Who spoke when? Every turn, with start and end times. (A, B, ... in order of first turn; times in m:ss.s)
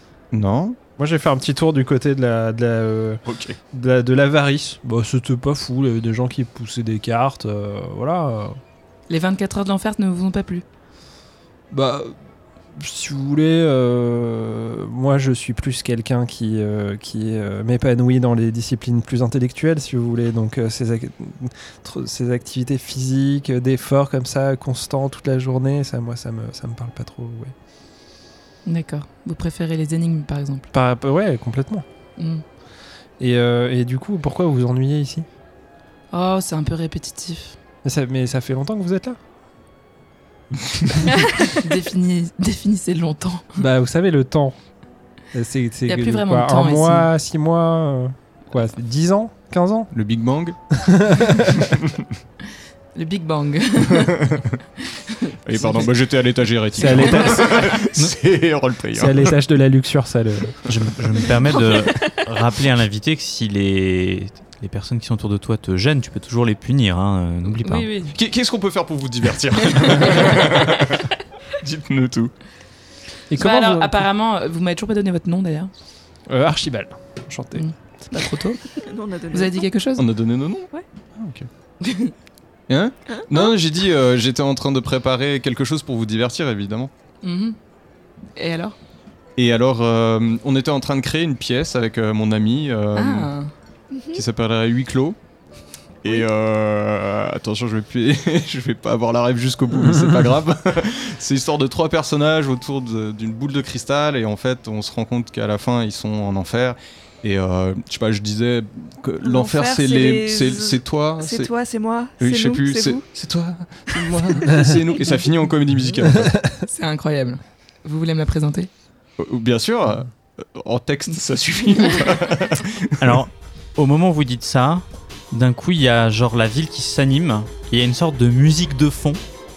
0:00.3-0:00.8 A
0:01.0-0:08.6 B
0:03.3-0:03.6 A
0:09.1-0:10.6 C
0:11.7-0:12.2 B
0:12.8-0:27.5 B
0:28.6-0:30.7 C
0:30.7-0:31.8 B
0:32.2-0:32.4 C
0:33.2-0:35.2 B
0:36.1-0:37.6 C
0:37.8-0:39.2 B
0:41.5-0:43.6 C
0:43.6-0:44.6 B
0:45.3-0:49.9 B
0:45.9-0:47.1 C
0:49.9-0:50.6 A
0:50.7-0:51.6 B
0:52.9-0:54.3 C
0:55.1-0:55.8 C
0:55.4-0:59.3 A
0:56.7-0:57.7 B
0:58.9-1:00.5 B
1:00.7-1:07.9 D
1:01.6-1:02.1 E
1:07.6-1:08.1 C
1:08.1-1:11.0 A
1:11.6-1:12.3 A
1:13.3-1:14.0 B
1:13.4-1:15.7 C
1:16.3-1:17.7 B
1:17.5-1:18.7 C
1:18.8-1:19.6 E
1:19.3-1:20.0 C
1:20.0-1:20.7 A
1:21.2-1:21.4 A
1:21.8-1:22.1 C
1:22.7-1:26.9 A
1:23.1-1:23.5 E
1:27.2-1:27.6 C
1:28.4-1:28.8 C
1:29.4-1:33.3 A
1:32.9-1:33.5 C
1:33.9-1:34.2 E
1:34.1-1:35.2 A
1:36.0-1:51.5 A
1:49.2-1:53.0 E
1:52.2-1:56.4 A
1:53.9-1:54.4 E
1:56.2-1:56.5 B
1:56.6-1:58.7 C
1:59.2-2:02.9 A
2:03.0-2:09.2 D